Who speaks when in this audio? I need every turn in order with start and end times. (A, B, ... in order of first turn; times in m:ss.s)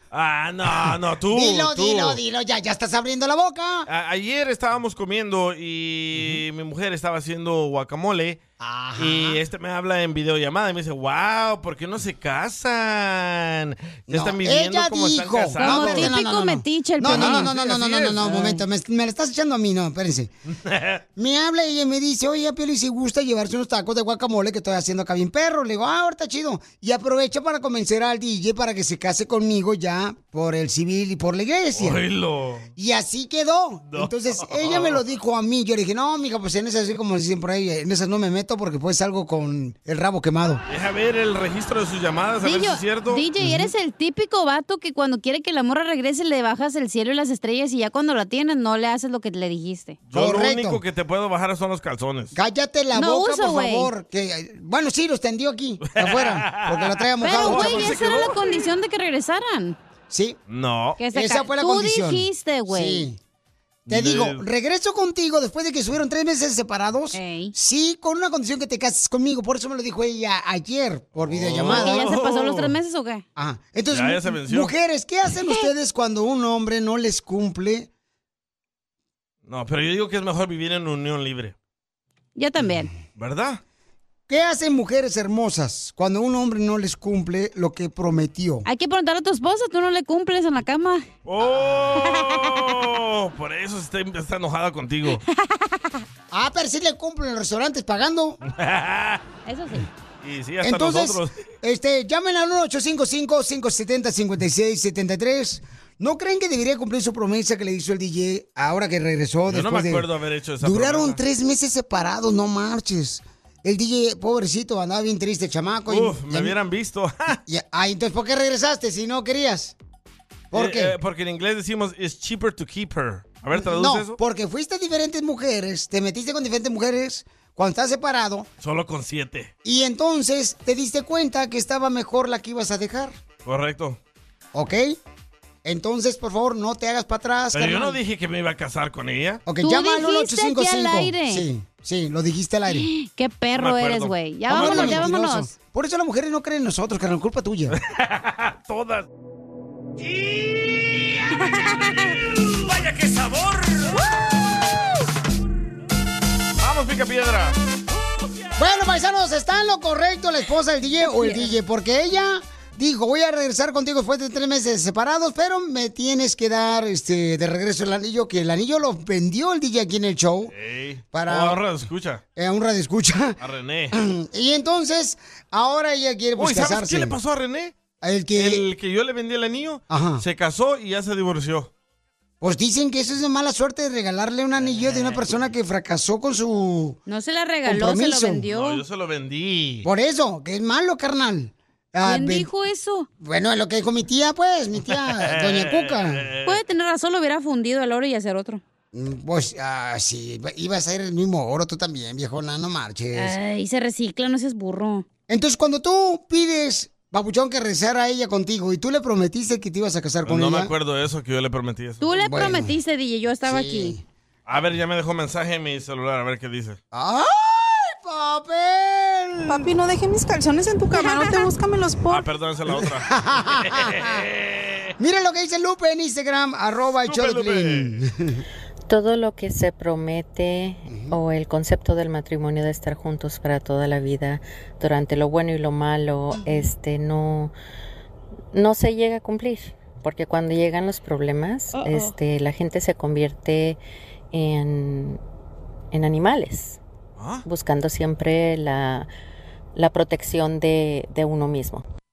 0:00.1-0:02.2 A
0:00.7-0:03.9 B
0:03.9-0:08.4 A
0:08.6-0:09.4 B
0:09.0-0:16.1 A
0:14.1-0:20.3 B
0:15.6-0:17.5 C
0:17.0-0:18.3 A
0:18.2-0:18.5 C
0:20.5-0:21.0 A
0:21.2-0:32.0 B
0:31.8-0:32.7 A
0:32.8-0:40.6 B
0:33.9-0:35.0 A
0:40.7-0:43.2 A
0:42.4-0:50.0 C
0:43.4-0:43.7 B
0:50.1-0:52.3 A
0:50.1-0:50.8 B
0:52.3-0:58.1 B
0:52.9-0:53.9 C
0:55.8-0:58.4 A
0:57.2-0:59.8 C
1:00.1-1:00.4 B
1:00.5-1:01.0 A
1:01.0-1:03.1 C
1:01.1-1:03.2 B
1:03.9-1:04.4 A
1:03.9-1:12.1 B
1:07.1-1:07.5 C
1:11.2-1:12.7 A
1:11.6-1:13.2 C
1:13.4-1:17.9 B
1:13.9-1:14.7 A
1:19.4-1:21.5 A
1:22.4-1:22.9 C
1:23.2-1:23.6 A
1:24.3-1:28.6 B
1:28.6-1:31.0 C
1:31.2-1:35.2 A
1:32.1-1:32.4 C
1:35.6-1:35.9 C
1:36.3-1:38.4 B
1:38.5-1:39.2 A
1:39.4-1:39.9 C
1:40.2-1:41.4 A
1:40.6-1:50.0 B
1:49.5-1:51.2 A
1:50.6-1:56.5 B
1:55.9-1:57.4 A
1:57.4-1:59.7 B
2:00.5-2:00.9 B
2:00.5-2:04.2 A
2:03.5-2:08.5 B
2:08.6-2:09.5 A
2:09.6-2:13.2 B
2:13.4-2:14.0 A
2:14.5-2:15.0 B
2:15.6-2:18.0 B
2:17.5-2:19.4 A
2:19.4-2:22.9 B
2:19.6-2:21.4 C
2:22.7-2:25.5 C
2:23.6-2:25.1 A
2:24.5-2:27.8 B
2:27.7-2:29.1 A
2:30.0-2:31.2 A
2:31.5-2:32.1 C
2:32.5-2:34.0 A
2:36.6-2:37.6 A
2:38.6-2:50.5 B
2:50.5-2:52.2 A
2:51.1-2:51.6 B
2:52.4-2:53.4 B
2:53.4-2:53.9 A
2:53.9-2:57.1 B
2:56.4-2:57.8 A
2:58.0-2:58.6 B
2:58.4-3:01.7 A
2:59.9-3:00.2 B
3:02.4-3:07.0 B
3:04.6-3:05.4 A
3:07.1-3:08.8 C
3:07.6-3:08.4 B
3:08.5-3:09.9 A
3:09.8-3:12.5 B
3:12.0-3:13.1 C
3:13.2-3:16.2 B
3:14.9-3:16.6 A
3:16.4-3:18.6 C
3:18.9-3:23.4 B
3:23.2-3:25.0 C
3:25.3-3:30.7 B
3:30.2-3:32.0 A
3:32.0-3:33.9 C
3:32.1-3:32.7 B
3:33.4-3:34.0 B
3:34.5-3:36.8 A
3:36.9-3:39.7 B
3:39.5-3:42.2 D
3:40.9-3:41.5 C
3:42.1-3:44.9 A
3:42.7-3:44.2 B
3:45.0-3:48.4 B
3:47.0-3:48.0 A
3:48.9-3:57.5 E
3:50.9-3:51.2 B
3:58.5-4:03.8 E
4:04.3-4:05.2 E
4:05.9-4:06.8 E
4:07.2-4:07.4 A
4:07.4-4:09.1 E
4:09.7-4:11.8 E